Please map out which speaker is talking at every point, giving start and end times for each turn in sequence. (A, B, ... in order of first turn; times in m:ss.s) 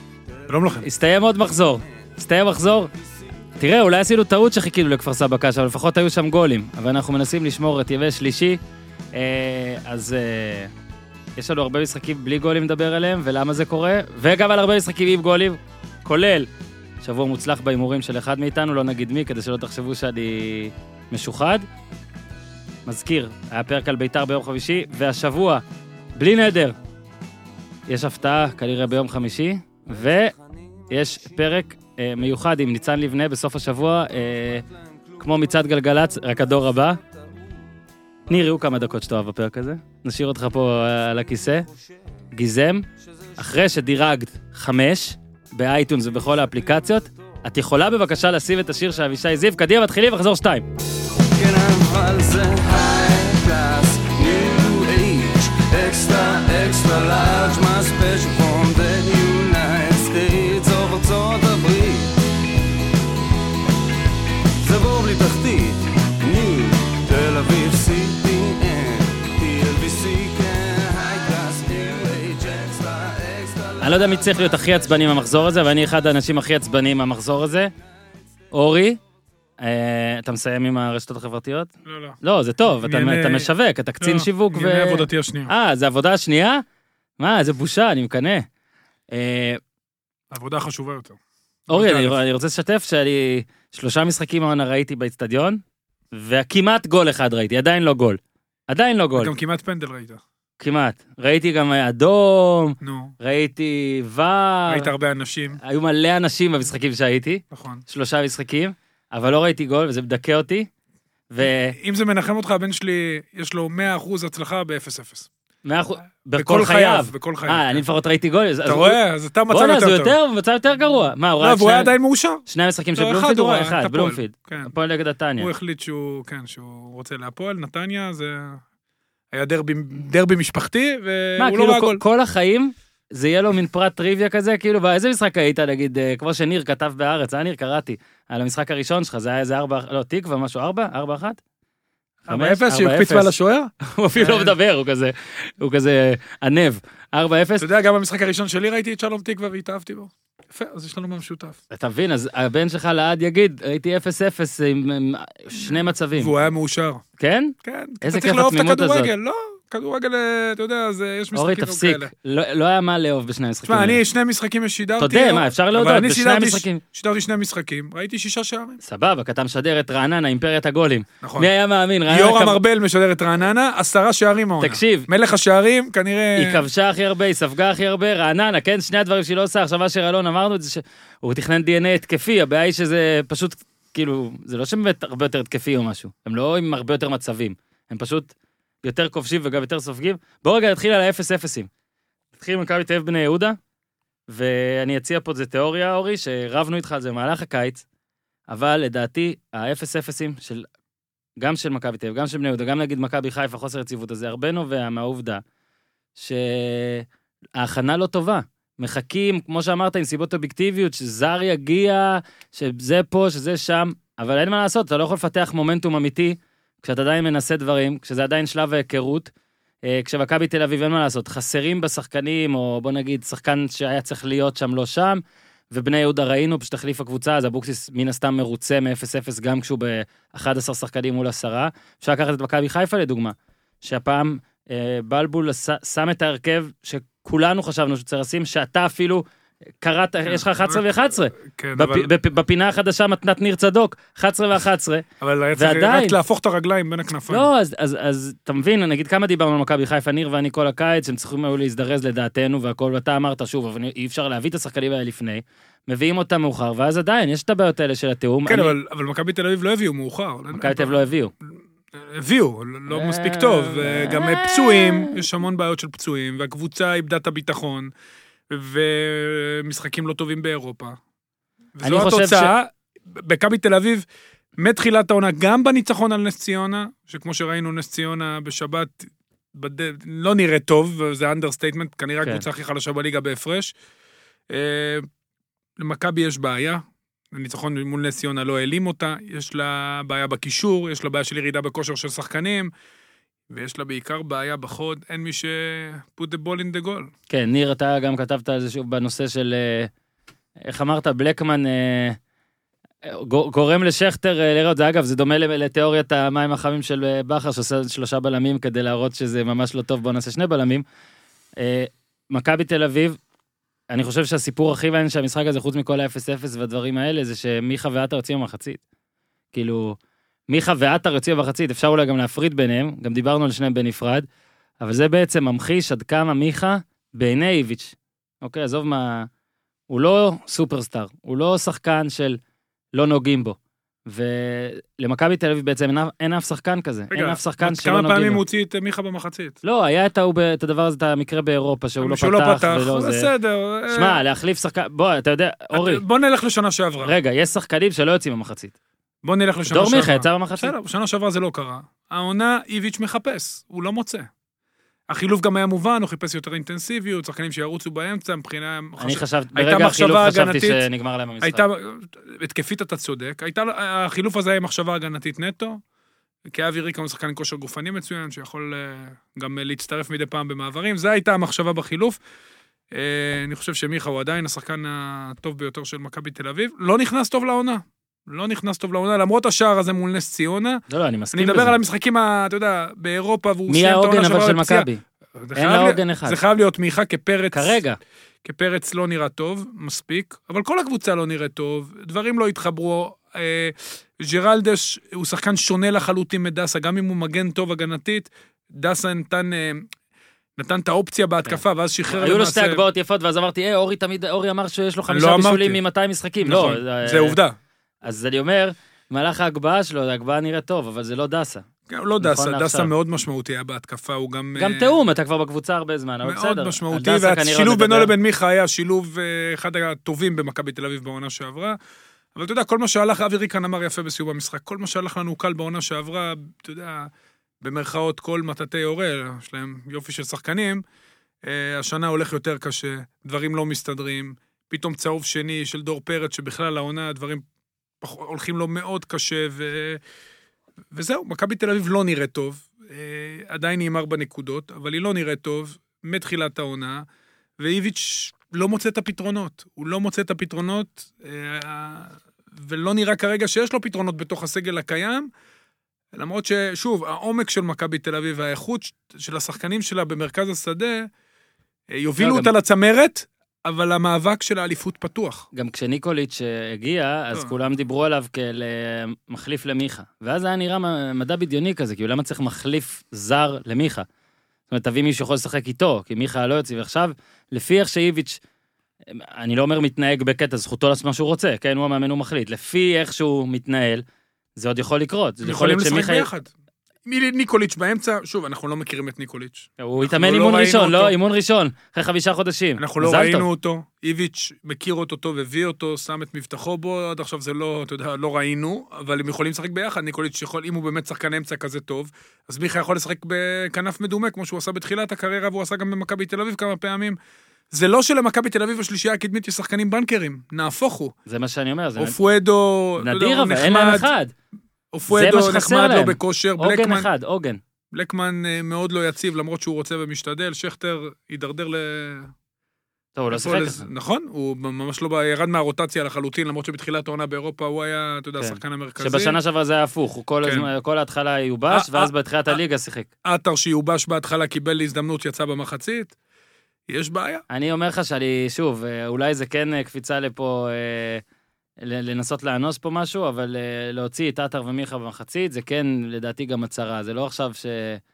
0:00.5-0:00.9 A
0:00.8-0:02.9 B
0:03.6-0:08.6 B
0:09.1-0:10.7 B
0:11.4-0:16.5 B
0:17.0-0:21.6 B
0:22.8-0:25.6 B
0:26.2-0:26.8 B
0:27.9-0:30.3 B
0:30.0-0:30.4 C
0:30.9-0:34.6 B
0:35.2-0:37.0 B
0:38.3-0:41.6 B
0:42.3-0:42.8 B
0:43.4-0:50.7 B
0:51.2-1:02.2 C
1:04.6-1:14.9 C
1:13.8-1:17.7 B
1:18.5-1:19.0 B
1:19.6-1:21.7 B
1:21.8-1:22.2 A
1:22.2-1:26.6 B
1:22.8-1:23.5 A
1:24.0-1:25.5 A
1:27.2-1:28.4 B
1:29.1-1:29.6 B
1:30.3-1:32.2 A
1:31.7-1:39.3 B
1:39.2-1:40.2 A
1:40.6-1:44.9 B
1:42.8-1:43.1 A
1:44.7-1:45.6 A
1:45.6-1:50.7 B
1:47.5-1:47.8 A
1:51.3-1:51.7 B
1:51.5-1:55.3 A
1:55.6-1:59.0 B
1:56.4-1:57.8 A
1:58.6-2:00.2 A
1:59.5-2:01.9 B
2:01.4-2:02.4 A
2:02.5-2:05.5 B
2:03.0-2:04.7 A
2:05.4-2:08.6 A
2:09.3-2:12.0 A
2:11.4-2:21.4 B
2:22.3-2:24.5 A
2:22.3-2:27.7 B
2:27.6-2:31.6 A
2:31.7-2:36.3 B
2:35.6-2:37.0 A
2:37.2-2:39.1 B
2:37.6-2:42.1 A
2:41.3-2:44.0 B
2:43.7-2:48.8 A
2:45.0-2:46.8 B
2:48.8-2:52.6 B
2:51.2-2:51.5 A
2:52.1-2:56.6 A
2:54.6-2:55.1 B
2:56.4-3:08.3 B
3:08.8-3:11.7 B
3:12.4-3:13.6 B
3:14.3-3:17.8 B
3:18.5-3:20.7 B
3:21.4-3:25.4 B
3:26.2-3:27.0 B
3:27.6-3:39.3 B
3:39.8-3:59.2 B
3:59.8-4:05.0 B
4:00.3-4:02.1 A
4:05.2-4:07.5 A
4:05.6-4:06.2 B
4:07.3-4:18.7 B
4:18.4-4:21.0 A
4:20.5-4:21.3 B
4:22.1-4:27.9 A
4:22.9-4:25.2 B
4:28.5-4:31.0 A
4:31.8-4:34.0 A
4:31.8-4:32.5 B
4:34.6-4:43.7 A
4:44.5-4:45.1 A
4:45.8-4:46.8 A
4:47.3-4:52.7 A
4:53.5-4:57.1 A
4:57.3-4:59.9 B
5:00.6-5:02.2 B
5:03.0-5:10.8 B
5:11.6-5:13.2 B
5:13.9-5:18.8 B
5:19.5-5:20.0 B
5:20.5-5:24.2 B
5:24.8-5:29.3 B
5:29.9-5:32.4 B
5:32.9-5:38.4 B
5:37.1-5:39.6 A
5:39.6-5:43.3 B
5:42.0-5:44.2 A
5:43.9-5:46.0 B
5:45.7-5:47.1 A
5:47.0-5:48.7 B
5:49.2-5:54.3 A
5:49.7-5:50.7 B
5:55.1-6:00.8 A
5:59.0-6:01.6 B
6:01.4-6:05.8 A
6:06.5-6:12.2 A
6:12.9-6:20.8 A
6:20.9-6:21.8 B
6:21.3-6:24.9 A
6:23.7-6:25.0 B
6:25.4-6:27.8 A
6:25.5-6:26.4 B
6:27.5-6:28.0 B
6:28.4-6:39.8 A
6:40.6-6:42.8 A
6:41.4-6:47.4 B
6:45.1-6:45.8 A
6:46.4-6:47.5 A
6:48.0-6:51.6 B
6:51.9-6:55.0 A
6:52.2-6:52.9 B
6:54.6-6:58.1 B
6:56.2-7:01.8 A
7:02.4-7:07.1 A
7:07.6-7:10.8 A
7:11.4-7:17.4 A
7:18.0-7:20.0 A
7:20.9-7:27.0 A
7:27.6-7:35.3 A
7:36.1-7:41.1 A
7:41.9-7:45.4 A
7:42.2-7:42.5 B
7:45.5-7:54.0 B
7:54.7-7:58.4 B
7:59.1-8:04.0 B
8:04.6-8:06.3 B
8:05.4-8:06.5 A
8:07.0-8:11.2 A
8:09.8-8:13.5 B
8:12.8-8:27.2 A
8:27.7-8:31.1 A
8:31.3-8:32.2 B
8:32.0-8:34.1 A
8:33.0-8:34.3 B
8:34.9-8:37.1 A
8:35.1-8:37.6 B
8:37.9-8:42.3 A
8:43.2-8:43.8 B
8:43.3-8:49.4 A
8:48.4-8:53.1 B
8:51.7-8:52.6 A
8:53.2-8:56.1 A
8:56.9-8:57.4 A
8:57.5-9:01.2 B
9:01.8-9:08.0 B